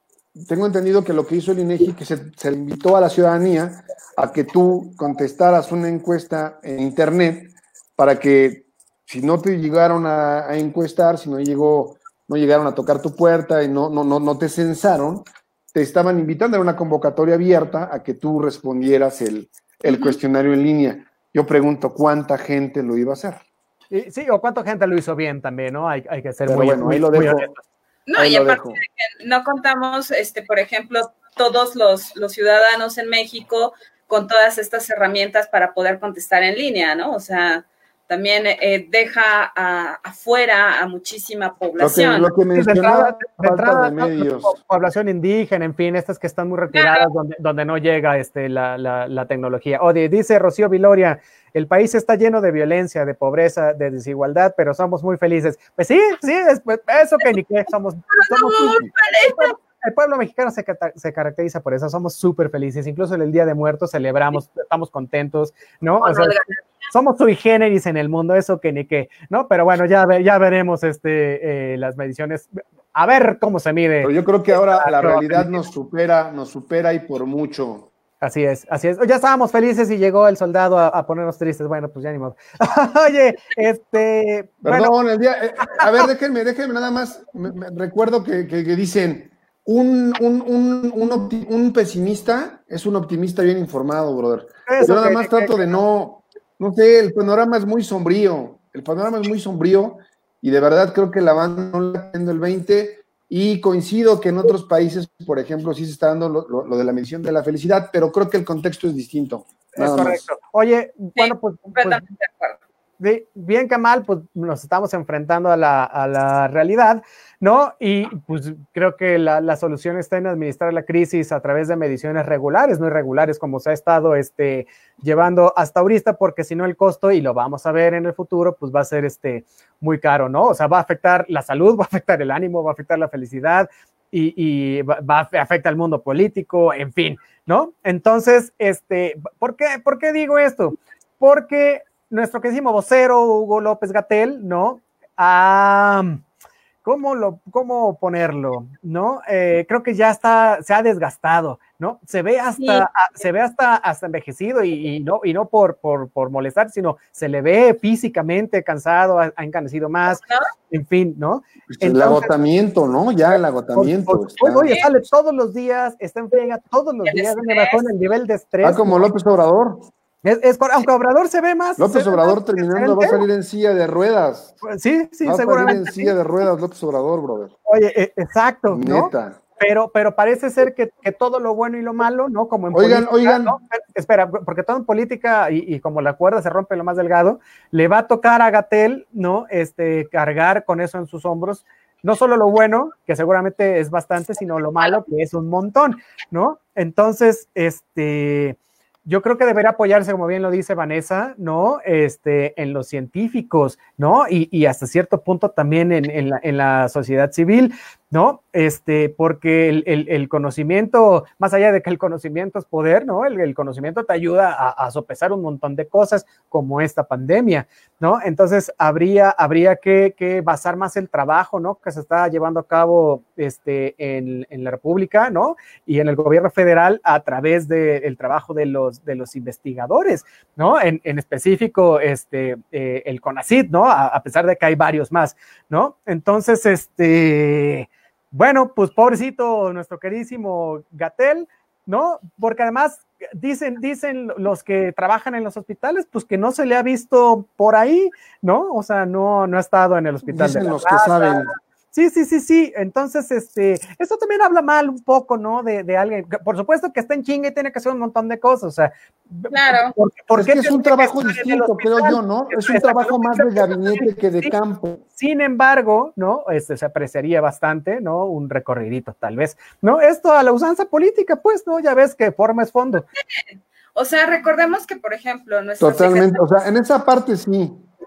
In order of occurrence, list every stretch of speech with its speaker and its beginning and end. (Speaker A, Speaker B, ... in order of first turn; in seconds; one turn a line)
Speaker A: 0.3-23.4
Speaker B: 19.9-20.1
Speaker C: 23.9-27.6
Speaker A: 26.4-27.5
Speaker B: 28.1-42.3
Speaker A: 28.1-28.8
Speaker A: 41.8-44.5
Speaker C: 42.5-66.3
Speaker B: 46.7-47.0
Speaker B: 58.1-59.5
Speaker B: 66.0-66.6
Speaker C: 66.9-75.6
Speaker A: 74.0-77.9
Speaker C: 78.2-84.9
Speaker A: 84.6-110.2
Speaker C: 85.6-85.9
Speaker C: 94.7-95.7
Speaker C: 109.8-112.0
Speaker B: 111.2-112.6
Speaker C: 113.0-146.2
Speaker C: 146.8-162.3
Speaker B: 152.6-152.8
Speaker B: 160.2-160.5
Speaker A: 161.7-164.7
Speaker C: 163.8-169.1
Speaker B: 167.1-167.8
Speaker A: 168.6-169.9
Speaker C: 170.2-173.2
Speaker A: 171.8-174.6
Speaker C: 174.6-176.1
Speaker A: 175.2-177.5
Speaker C: 177.7-264.5
Speaker A: 178.7-179.4
Speaker A: 182.7-183.6
Speaker A: 250.3-251.5
Speaker B: 259.5-259.9
Speaker A: 260.3-265.0
Speaker C: 265.1-273.0
Speaker B: 273.2-273.4
Speaker B: 273.9-276.4
Speaker A: 275.8-277.9